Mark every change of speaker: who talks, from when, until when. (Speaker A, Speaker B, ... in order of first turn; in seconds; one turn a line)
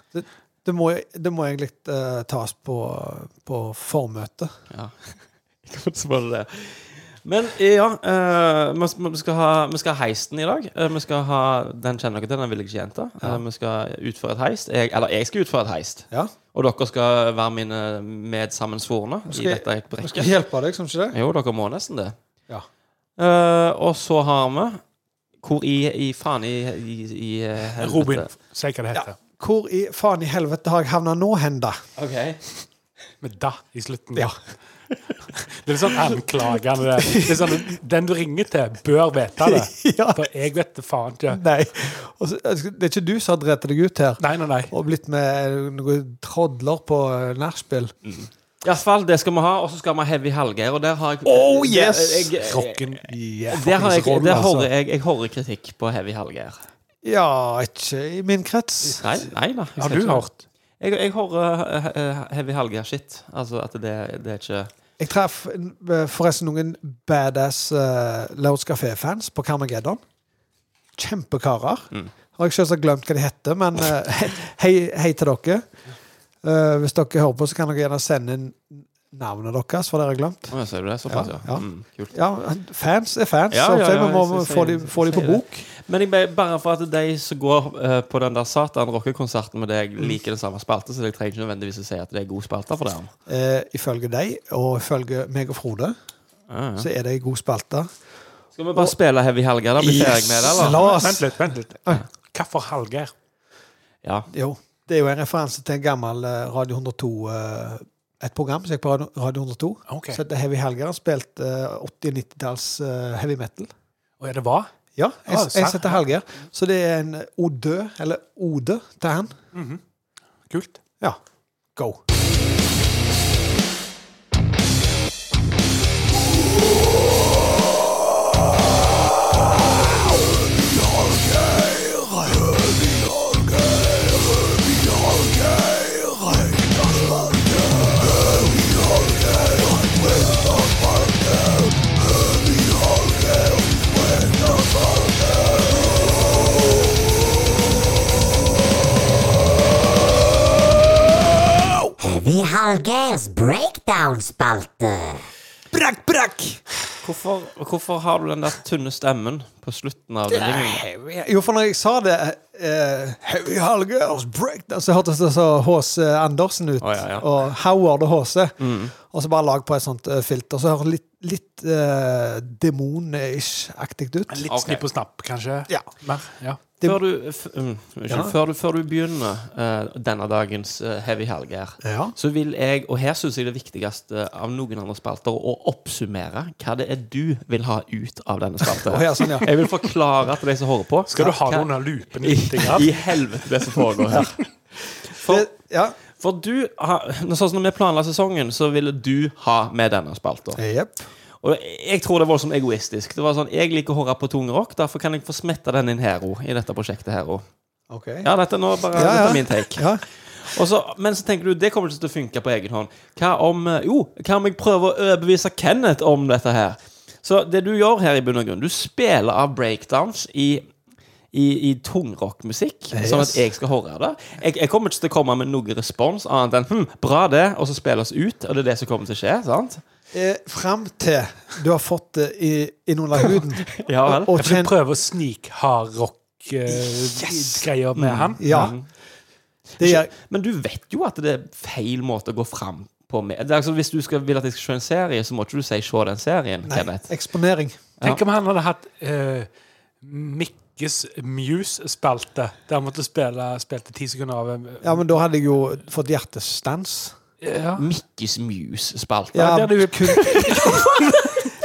Speaker A: 0.1-4.5
Speaker B: 4.7-20.3
Speaker A: 19.3-21.2
Speaker B: 21.1-22.1
Speaker B: 23.2-24.8
Speaker B: 25.4-28.3
Speaker C: 27.8-29.1
Speaker A: 28.9-31.8
Speaker B: 32.0-32.4
Speaker C: 33.2-34.3
Speaker C: 35.4-41.4
Speaker A: 37.1-37.4
Speaker A: 39.4-40.2
Speaker A: 41.3-47.9
Speaker C: 44.2-44.7
Speaker B: 48.0-56.6
Speaker A: 51.2-52.3
Speaker C: 52.4-53.1
Speaker A: 53.1-54.7
Speaker C: 53.8-54.5
Speaker A: 57.0-59.0
Speaker B: 59.0-60.2
Speaker C: 59.8-60.4
Speaker B: 60.8-64.7
Speaker A: 65.0-70.0
Speaker A: 71.0-75.6
Speaker A: 76.4-80.5
Speaker B: 80.5-82.2
Speaker A: 81.1-85.7
Speaker B: 83.5-93.1
Speaker A: 93.3-96.0
Speaker B: 96.5-96.9
Speaker A: 96.8-97.9
Speaker B: 98.5-100.8
Speaker A: 99.8-102.0
Speaker C: 100.5-103.1
Speaker B: 104.0-104.3
Speaker A: 104.3-113.7
Speaker C: 109.9-110.2
Speaker C: 114.2-114.7
Speaker A: 115.0-119.4
Speaker C: 115.3-116.0
Speaker C: 119.5-119.8
Speaker C: 120.5-120.8
Speaker A: 121.8-122.0
Speaker D: 152.0-155.1
Speaker A: 155.7-156.6
Speaker B: 157.0-160.8
Speaker A: 160.3-174.4
Speaker B: 166.8-167.3
Speaker B: 168.6-168.9
Speaker C: 174.3-176.6
Speaker B: 174.5-174.8
Speaker B: 176.8-194.4
Speaker A: 178.1-178.3
Speaker A: 181.8-182.1
Speaker A: 188.8-189.5
Speaker C: 191.1-192.9
Speaker B: 195.1-195.4
Speaker A: 195.2-196.0
Speaker B: 196.2-200.6
Speaker A: 200.6-201.1
Speaker B: 201.4-207.4
Speaker A: 207.9-208.3
Speaker B: 208.2-220.7
Speaker A: 208.9-210.0
Speaker B: 221.3-229.8
Speaker A: 222.9-223.4
Speaker A: 230.1-234.7
Speaker B: 233.7-234.3
Speaker C: 234.3-238.7
Speaker A: 236.7-237.6
Speaker B: 237.9-238.8
Speaker A: 238.4-238.7
Speaker B: 239.8-247.1
Speaker A: 239.8-240.1
Speaker A: 246.6-247.8
Speaker C: 248.0-249.5
Speaker C: 250.0-255.0
Speaker A: 254.8-257.2
Speaker C: 257.4-257.8
Speaker B: 257.8-259.6
Speaker A: 259.3-261.3
Speaker C: 259.4-261.4